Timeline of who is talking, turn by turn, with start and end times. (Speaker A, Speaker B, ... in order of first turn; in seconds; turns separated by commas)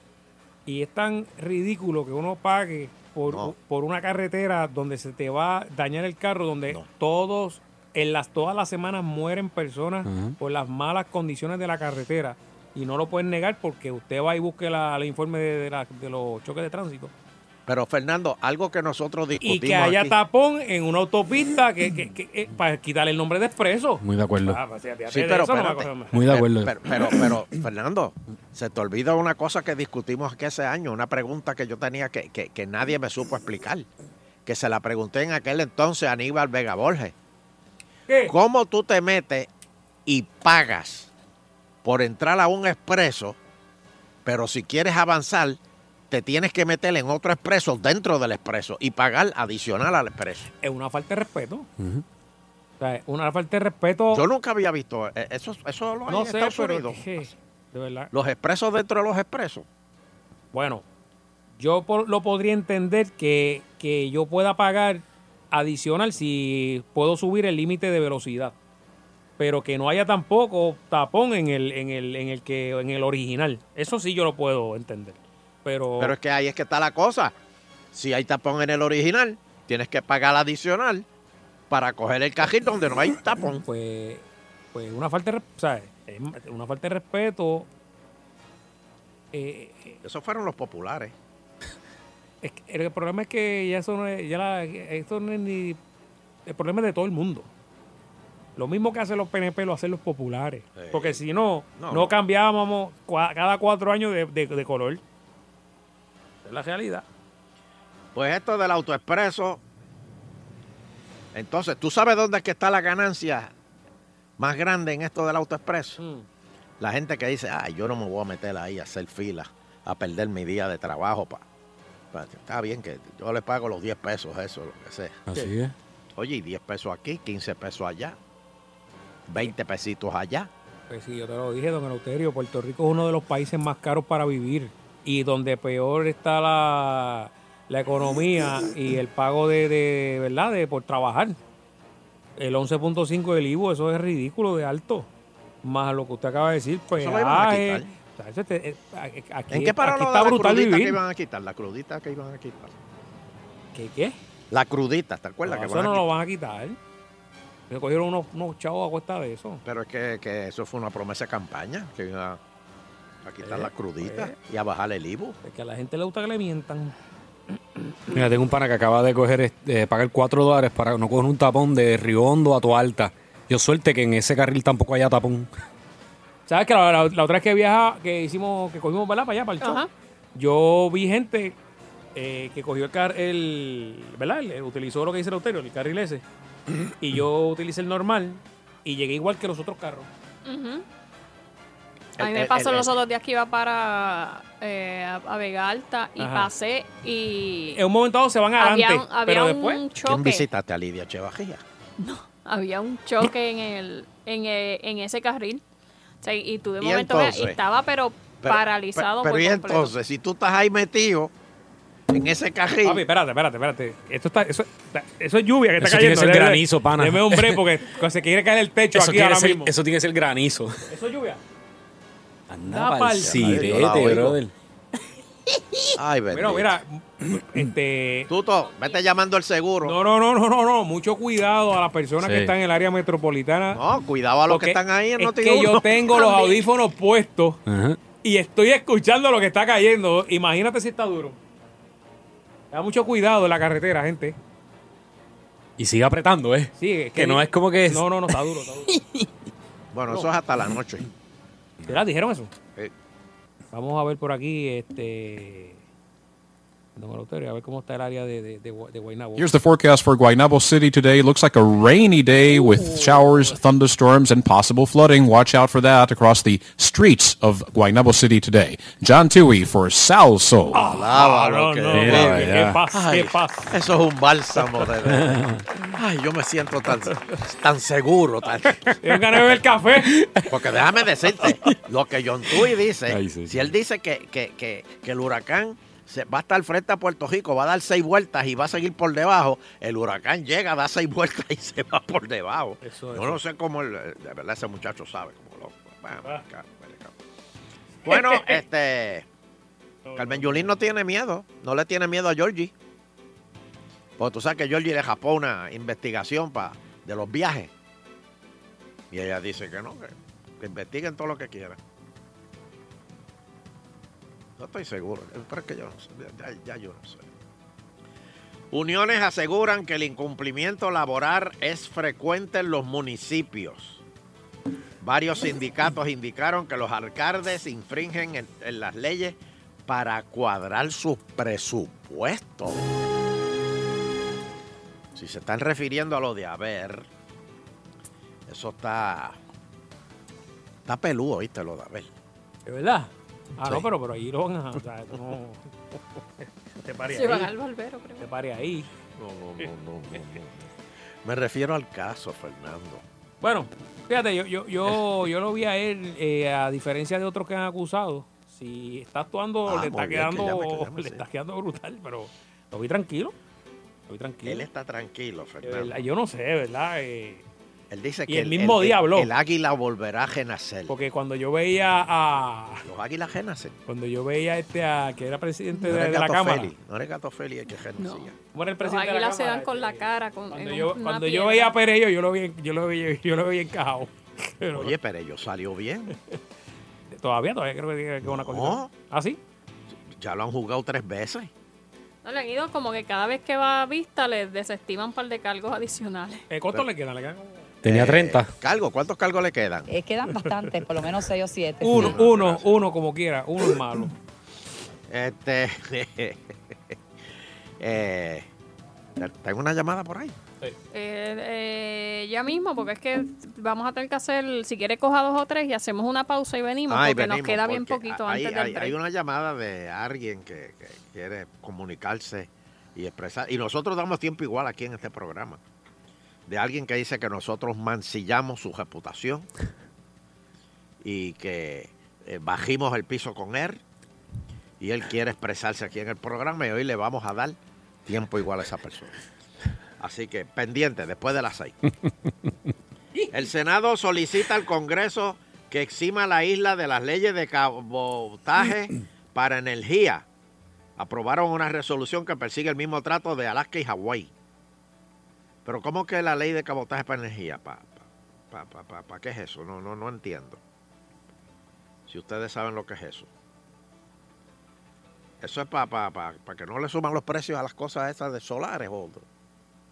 Speaker A: 0.7-17.1, Speaker B: 3.3-3.5, Speaker C: 10.1-10.3, Speaker B: 17.6-20.1, Speaker A: 19.4-26.1, Speaker C: 24.0-24.6, Speaker B: 25.1-33.9, Speaker C: 26.1-27.3, Speaker B: 34.4-37.1, Speaker A: 38.1-38.3, Speaker B: 38.3-39.5, Speaker B: 40.0-41.1, Speaker B: 41.8-43.4, Speaker B: 44.2-45.6, Speaker B: 46.1-50.5, Speaker A: 50.6-51.7, Speaker C: 51.8-52.0, Speaker A: 52.8-54.2, Speaker B: 54.1-57.2, Speaker A: 56.1-58.1, Speaker B: 58.1-59.7, Speaker A: 60.5-60.8, Speaker A: 61.6-68.5, Speaker A: 69.4-76.2, Speaker B: 76.0-77.3, Speaker B: 77.9-81.0, Speaker B: 81.7-83.6, Speaker A: 83.6-87.7, Speaker A: 89.3-90.0, Speaker B: 90.0-91.1, Speaker A: 92.4-95.8, Speaker A: 96.5-97.5, Speaker A: 98.5-105.0, Speaker B: 100.7-101.2, Speaker B: 101.8-102.1, Speaker A: 106.4-107.0, Speaker B: 108.1-109.6, Speaker B: 111.3-113.5, Speaker B: 114.4-116.0, Speaker A: 116.0-116.2, Speaker B: 116.8-121.4, Speaker B: 122.1-125.2, Speaker C: 125.3-125.7, Speaker B: 126.2-128.2, Speaker B: 129.3-130.5, Speaker A: 130.9-141.4, Speaker A: 142.4-145.1, Speaker A: 145.6-151.0, Speaker B: 146.9-147.9, Speaker B: 149.5-152.7, Speaker A: 153.7-154.2, Speaker B: 154.5-156.0, Speaker A: 155.4-156.8, Speaker A: 157.7-159.6, Speaker B: 159.6-162.4, Speaker B: 163.2-165.4, Speaker A: 163.4-164.3, Speaker A: 165.4-166.9, Speaker C: 168.1-175.5, Speaker A: 176.5-179.8, Speaker D: 179.6-179.9, Speaker A: 180.3-181.6, Speaker A: 182.1-186.2, Speaker A: 187.0-190.1, Speaker D: 190.4-190.8, Speaker B: 192.2-192.9, Speaker D: 192.2-197.8, Speaker A: 196.2-196.5, Speaker A: 197.8-199.8, Speaker D: 198.6-200.4, Speaker B: 200.0-201.6, Speaker D: 202.0-205.6, Speaker D: 206.2-209.9, Speaker B: 206.8-207.6, Speaker B: 208.4-211.3, Speaker B: 212.1-213.0, Speaker A: 212.8-219.7, Speaker C: 215.8-217.6, Speaker C: 218.9-220.7, Speaker A: 220.9-221.4, Speaker C: 222.5-224.5, Speaker A: 222.7-224.2, Speaker B: 223.2-224.4, Speaker B: 225.9-226.8, Speaker A: 226.3-228.3, Speaker B: 228.3-229.9, Speaker D: 228.7-229.0, Speaker A: 229.8-233.8, Speaker C: 232.2-232.5, Speaker B: 233.7-235.9, Speaker A: 234.5-237.6, Speaker D: 236.1-236.6, Speaker C: 237.7-238.0, Speaker A: 238.2-241.4, Speaker A: 242.7-244.3, Speaker C: 245.8-248.0, Speaker A: 246.8-249.0, Speaker B: 249.9-251.1, Speaker A: 251.9-252.5, Speaker A: 253.7-255.8, Speaker A: 256.9-259.5, Speaker E: 259.4-270.8, Speaker A: 270.7-273.7, Speaker B: 270.8-275.4, Speaker C: 271.9-272.8, Speaker B: 276.0-278.9, Speaker A: 279.0-280.2, Speaker B: 280.5-297.2, Speaker C: 283.1-283.7, Speaker A: 292.8-293.4, Speaker A: 298.1-298.6, Speaker B: 298.1-299.3, Speaker A: 300.1-300.8, Speaker B: 300.1-302.7, Speaker B: 304.2-307.7, Speaker B: 309.1-311.8, Speaker B: 314.6-317.3, Speaker B: 318.7-324.0, Speaker B: 325.0-332.8, Speaker B: 335.1-337.1, Speaker B: 338.5-339.4, Speaker B: 340.9-342.1, Speaker A: 342.6-345.7, Speaker B: 343.6-343.9, Speaker A: 346.4-347.5, Speaker D: 347.1-348.2, Speaker A: 348.2-348.9, Speaker B: 349.1-350.7, Speaker B: 351.2-353.0, Speaker A: 353.4-363.3, Speaker B: 359.6-361.2, Speaker A: 364.1-364.7, Speaker B: 364.4-366.0, Speaker A: 365.6-367.4, Speaker B: 367.9-371.0, Speaker A: 368.3-369.3, Speaker A: 370.9-372.8, Speaker B: 372.8-373.8, Speaker A: 373.9-376.7, Speaker B: 375.9-378.3, Speaker D: 378.0-378.3, Speaker A: 378.5-384.9, Speaker D: 378.8-381.7, Speaker B: 384.7-386.1, Speaker A: 387.1-389.4, Speaker B: 388.2-388.9, Speaker B: 389.9-391.5, Speaker D: 392.2-396.4, Speaker A: 396.5-397.6, Speaker C: 397.8-398.5, Speaker B: 397.8-399.9, Speaker F: 399.9-402.1, Speaker A: 401.8-404.1, Speaker B: 401.9-402.7, Speaker B: 405.1-406.9, Speaker B: 407.8-408.5, Speaker B: 409.2-410.4, Speaker D: 410.9-418.9, Speaker B: 416.9-425.6, Speaker B: 426.5-429.5, Speaker B: 431.0-433.8, Speaker B: 434.8-439.2, Speaker B: 440.0-441.8, Speaker B: 443.3-450.2, Speaker B: 451.0-454.3, Speaker B: 455.6-460.6, Speaker B: 462.1-463.3, Speaker B: 465.4-469.2